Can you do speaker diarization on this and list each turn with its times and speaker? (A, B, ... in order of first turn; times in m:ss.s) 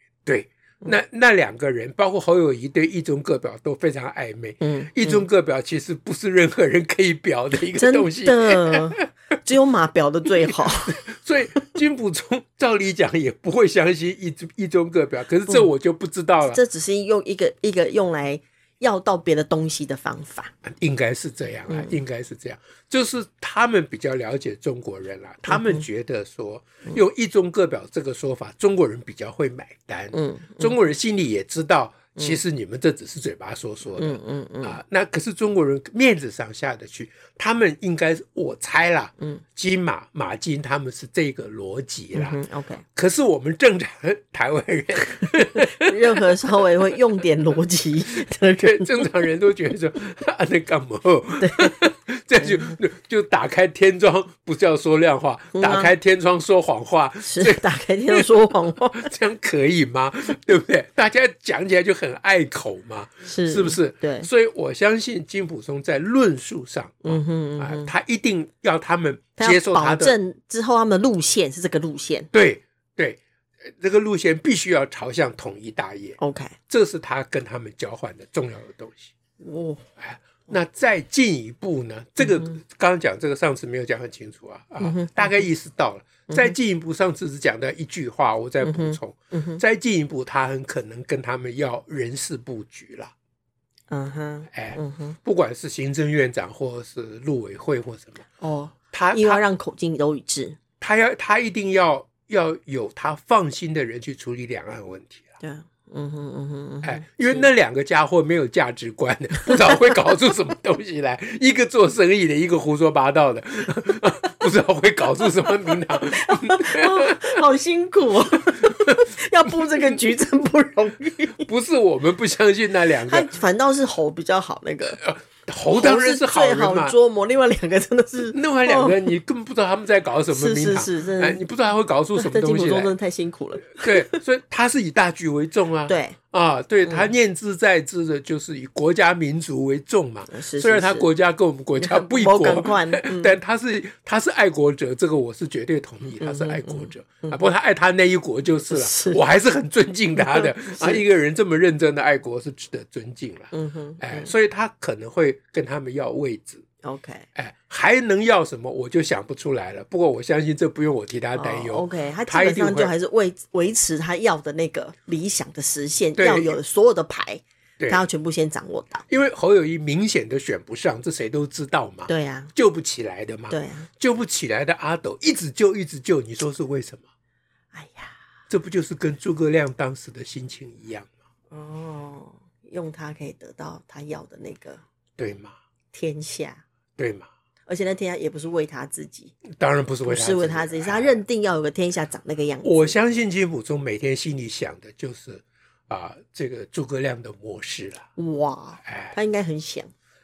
0:00.3-0:09.0 A
0:04.6-0:05.2 B
0:07.7-0:11.0 B
0:10.5-0:16.6 A
0:16.5-0:20.5 B
0:20.6-0:42.4 A
0:21.7-0:22.0 B
0:25.5-0:25.8 B
0:30.1-0:30.8 B
0:34.0-0:34.8 B
0:42.1-0:42.8 B
0:43.0-0:46.2 A
0:45.5-0:49.1 B
0:48.6-0:58.4 A
0:51.4-0:51.8 B
0:52.4-0:52.8 B
0:55.5-0:55.9 B
0:57.2-0:59.1 B
0:58.9-1:10.1 A
1:03.3-1:04.3 B
1:07.0-1:07.9 B
1:09.4-1:12.3 B
1:12.3-1:16.2 A
1:16.2-1:16.6 B
1:16.7-1:19.1 A
1:19.4-1:19.9 B
1:20.0-1:33.1 A
1:22.2-1:22.6 B
1:24.8-1:25.5 B
1:26.3-1:26.6 B
1:28.6-1:29.6 B
1:33.9-1:35.2 B
1:34.5-1:38.2 A
1:38.4-1:40.6 B
1:38.9-1:39.4 A
1:40.8-1:45.3 A
1:45.4-1:47.5 B
1:46.8-1:57.4 A
1:49.4-1:49.9 B
1:56.1-2:01.5 B
1:58.5-2:00.0 A
2:01.4-2:03.3 A
2:03.0-2:05.0 B
2:05.0-2:07.0 A
2:05.7-2:09.1 B
2:08.3-2:12.9 A
2:10.3-2:11.4 B
2:12.2-2:14.2 B
2:13.7-2:36.6 A
2:15.9-2:16.2 B
2:16.8-2:17.1 B
2:20.3-2:21.1 B
2:21.8-2:23.4 B
2:26.2-2:27.4 B
2:28.7-2:29.2 B
2:30.2-2:31.0 B
2:33.5-2:34.3 B
2:36.8-2:37.3 B
2:37.4-2:42.9 A
2:41.4-2:49.0 B
2:46.2-2:46.6 A
2:49.1-2:57.0 A
2:52.1-2:52.5 B
2:53.5-2:53.9 B
2:57.7-2:58.1 B
2:58.5-3:01.1 A
3:01.5-3:04.8 B
3:05.2-3:05.6 A
3:05.9-3:06.6 B
3:07.0-3:07.3 A
3:07.7-3:09.4 B
3:09.5-3:11.2 A
3:10.1-3:13.0 B
3:12.6-3:18.1 A
3:18.2-3:19.9 B
3:18.8-3:19.2 A